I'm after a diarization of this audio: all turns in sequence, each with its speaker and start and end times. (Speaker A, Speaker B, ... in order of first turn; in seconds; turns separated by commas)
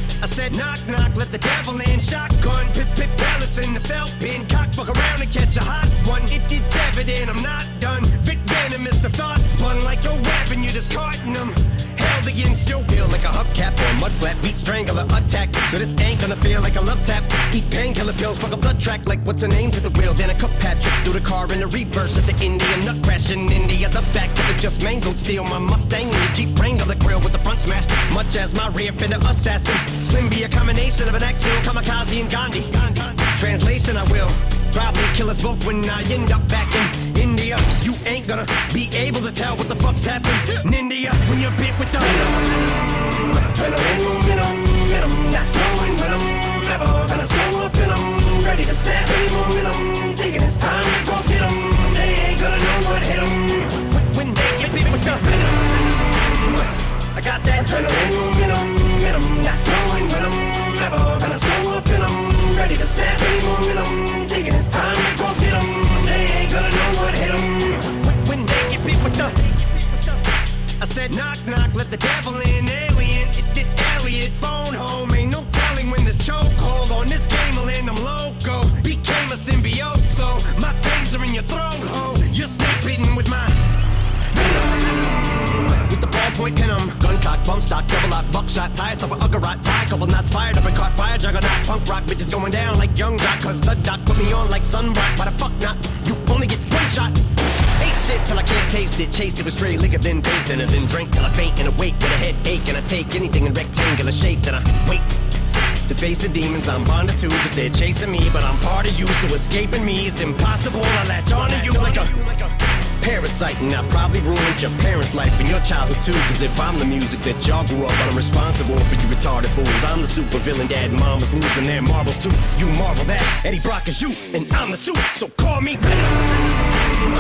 Speaker A: 0.2-70.2, Speaker A: 70.8-83.7, Speaker A: 84.3-85.1, Speaker A: 85.6-105.1, Speaker A: 105.8-126.7